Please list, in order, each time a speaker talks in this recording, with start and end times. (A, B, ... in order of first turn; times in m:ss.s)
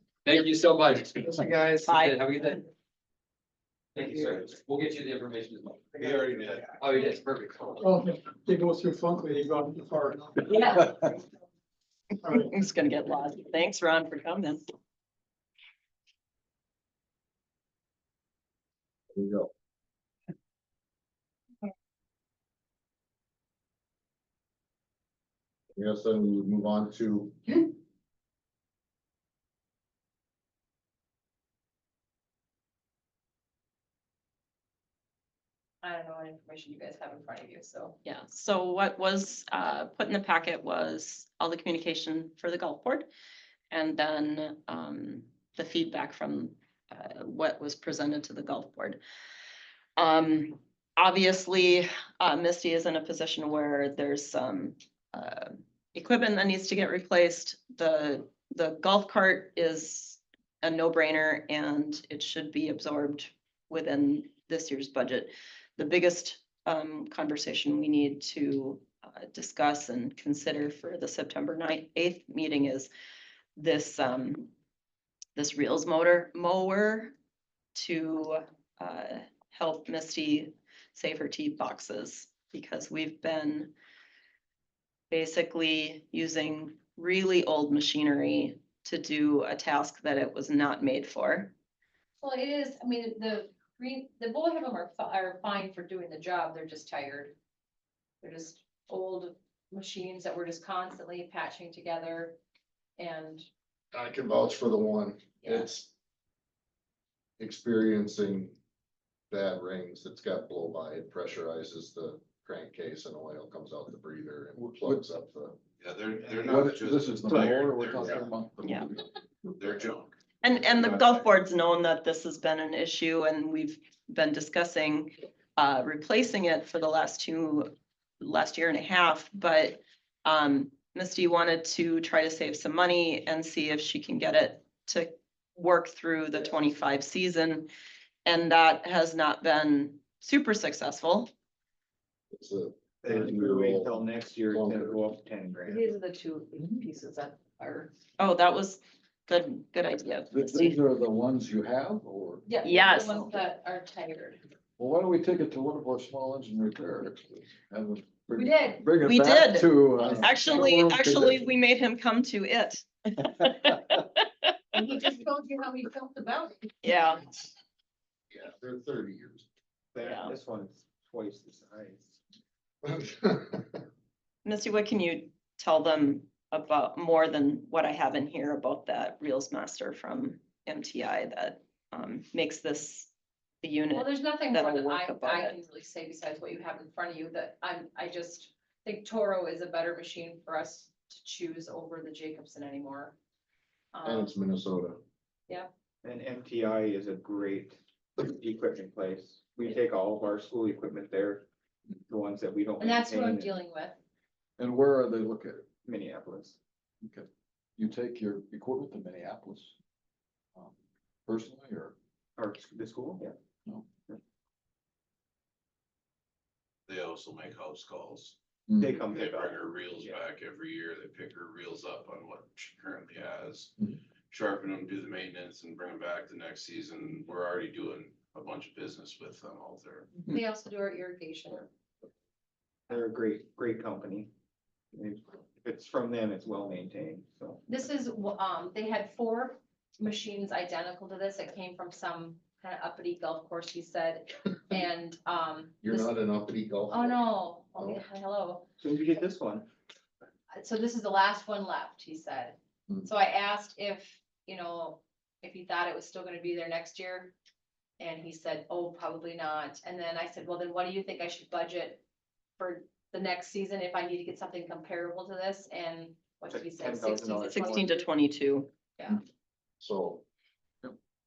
0:00.2-0:02.6 A
0:01.9-0:02.2 B
0:04.0-0:06.1 A
0:06.0-0:06.8 C
0:06.6-0:08.0 A
0:07.8-0:11.0 D
0:10.5-0:10.8 E
0:12.2-0:12.5 D
0:12.3-0:14.6 B
0:19.1-0:19.5 F
0:25.8-0:27.7 F
0:35.8-0:38.0 E
0:38.0-0:43.1 B
0:43.7-0:49.0 B
0:50.0-1:12.9 B
1:13.6-1:14.5 B
1:15.4-1:17.1 B
1:17.8-1:23.7 B
1:25.1-1:31.5 B
1:32.2-1:37.4 E
1:38.2-1:42.4 E
1:43.0-1:43.5 E
1:43.9-1:45.9 F
1:47.4-1:48.6 F
1:49.3-1:55.6 F
1:54.6-1:55.0 G
1:55.8-1:58.2 C
1:56.4-1:59.0 G
1:58.6-1:58.9 B
1:59.6-2:00.1 C
2:00.4-2:17.7 B
2:00.7-2:01.2 C
2:18.2-2:21.3 B
2:22.3-2:25.0 F
2:23.0-2:25.9 H
2:25.7-2:27.9 E
2:28.2-2:30.8 B
2:30.3-2:32.5 G
2:32.5-2:34.4 E
2:32.6-2:33.2 B
2:34.8-2:41.4 G
2:38.3-2:38.8 E
2:39.0-2:44.5 B
2:40.1-2:40.7 E
2:44.7-2:46.7 E
2:46.8-2:47.2 B
2:48.3-2:49.5 F
2:50.0-2:52.2 H
2:50.0-2:50.3 B
2:52.8-2:53.8 F
2:54.4-3:05.6 B
3:03.9-3:13.2 E
3:13.9-3:14.4 E
3:14.0-3:15.0 F
3:16.0-3:21.5 H
3:22.1-3:23.5 H
3:22.8-3:24.0 E
3:24.6-3:25.7 G
3:25.8-3:26.6 H
3:27.0-3:29.8 G
3:31.3-3:31.9 G
3:32.4-3:33.3 H
3:36.9-3:38.4 C
3:38.7-3:39.0 G
3:38.8-3:40.2 H
3:39.0-3:43.7 C
3:44.3-3:50.1 C
3:50.3-3:51.7 E
3:52.9-3:54.3 H
3:54.9-3:57.6 H
3:57.7-4:06.1 E
4:05.8-4:07.2 F
4:06.9-4:08.7 E
4:07.8-4:08.0 F
4:08.8-4:09.7 H
4:10.5-4:17.3 E
4:18.0-4:22.0 E
4:22.6-4:28.0 E
4:26.5-4:28.0 H
4:27.4-4:28.7 B
4:29.8-4:30.2 F